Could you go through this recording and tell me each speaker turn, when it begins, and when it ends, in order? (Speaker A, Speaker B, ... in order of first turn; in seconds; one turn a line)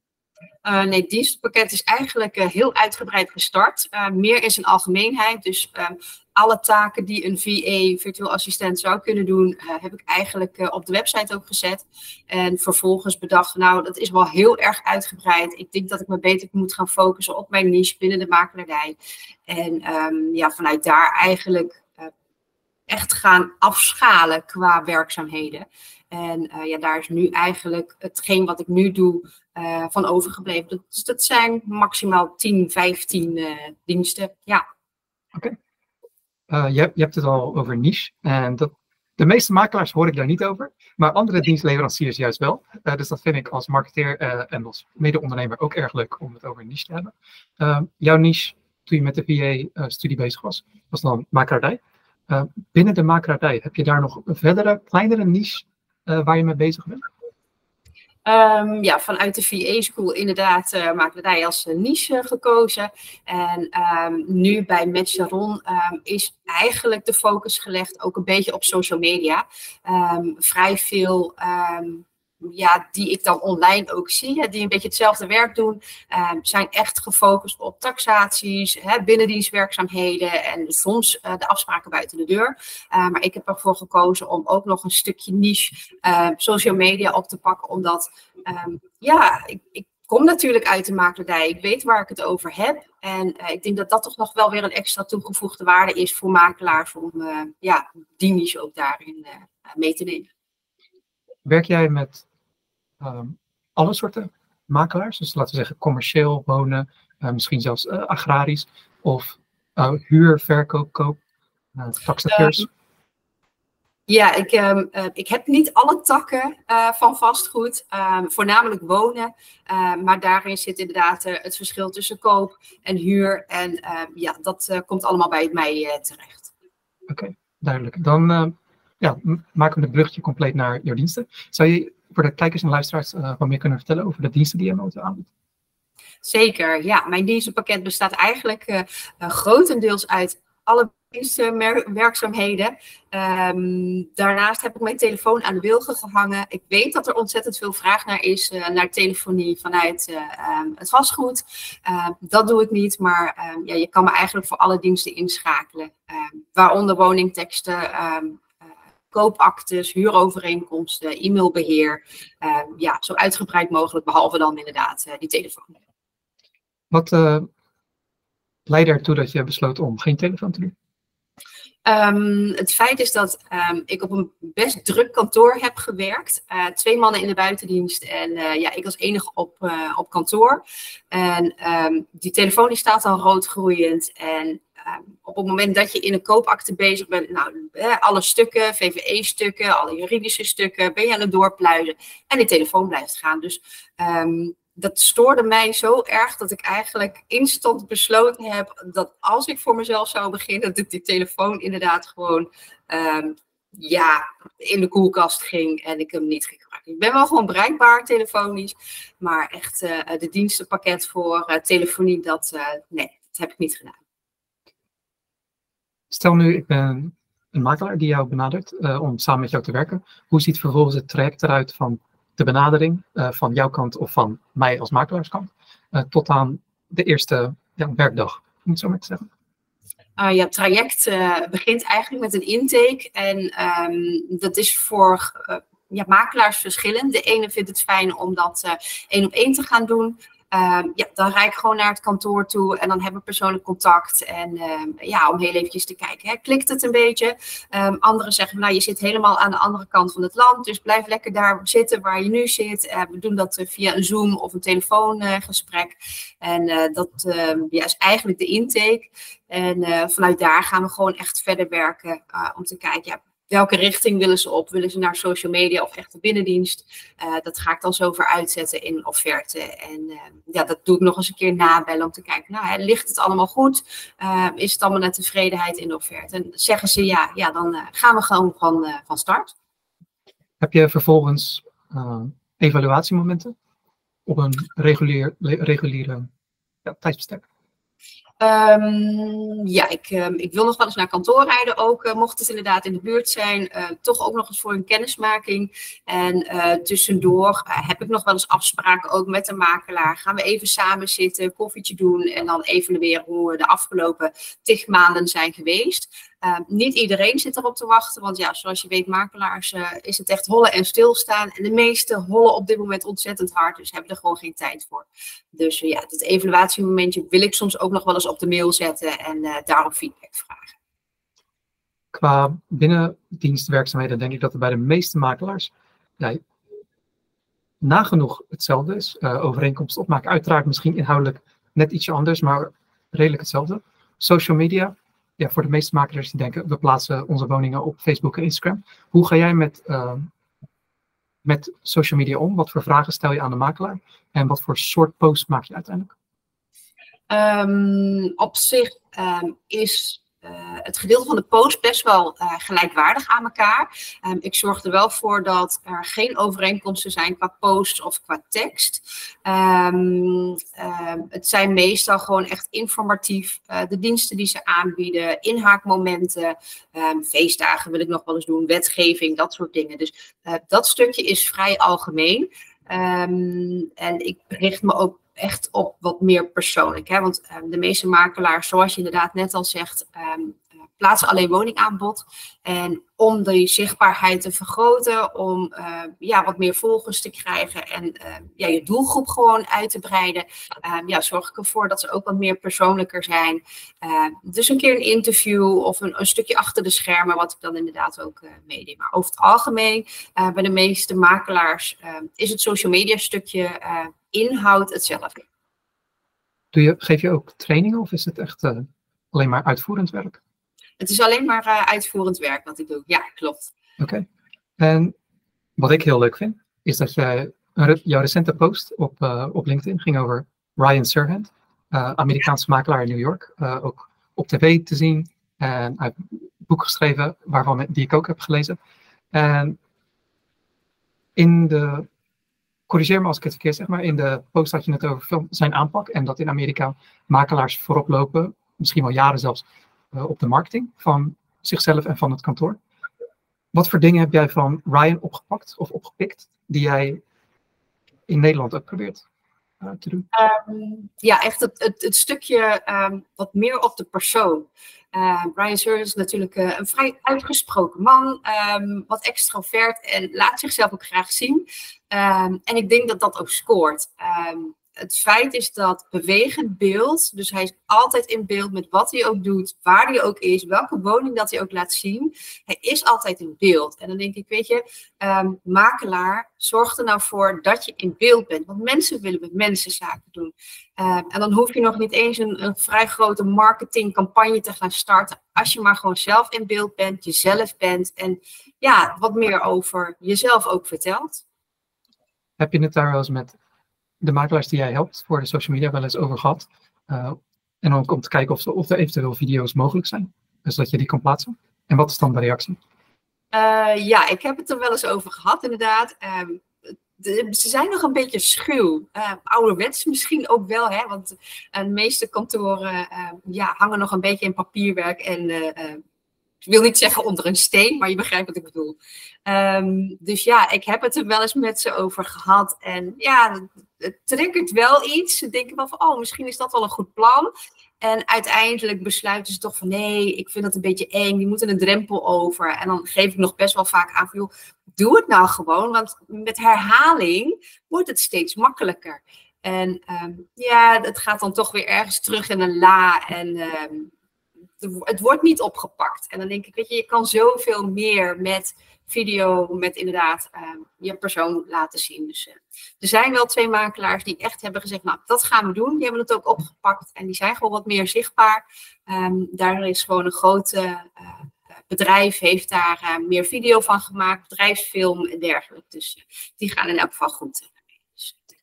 Speaker A: 0.6-19.0
Speaker A: 19.5-22.1
Speaker A: 22.9-34.6
Speaker B: 36.5-57.0
Speaker A: 58.3-100.3
Speaker B: 101.5-102.2
Speaker B: 103.0-111.2
Speaker B: 111.8-112.7
Speaker A: 112.3-112.6
Speaker A: 114.1-126.5
Speaker B: 127.1-135.3
Speaker A: 136.2-158.5
Speaker A: 159.1-165.7
Speaker B: 166.9-167.5
Speaker B: 168.7-170.7
Speaker A: 171.8-214.0
Speaker B: 216.1-229.3
Speaker A: 230.2-279.5
Speaker B: 280.6-283.5
Speaker B: 284.3-286.3
Speaker B: 286.9-287.4
Speaker A: 288.4-320.7
Speaker B: 322.1-326.4
Speaker B: 327.8-340.3
Speaker B: 341.4-346.1
Speaker A: 347.3-405.5
Speaker B: 406.7-410.4
Speaker A: 411.0-413.7
Speaker B: 414.0-414.3
Speaker B: 414.8-415.1
Speaker B: 415.8-428.8
Speaker B: 429.3-429.8
Speaker B: 431.4-432.1
Speaker B: 432.9-442.8
Speaker B: 443.7-447.2
Speaker B: 448.3-449.2
Speaker B: 449.8-450.3
Speaker A: 450.3-491.4
Speaker B: 492.6-493.6
Speaker B: 494.2-502.8
Speaker A: 503.5-516.0
Speaker A: 516.6-544.1
Speaker A: 544.8-568.4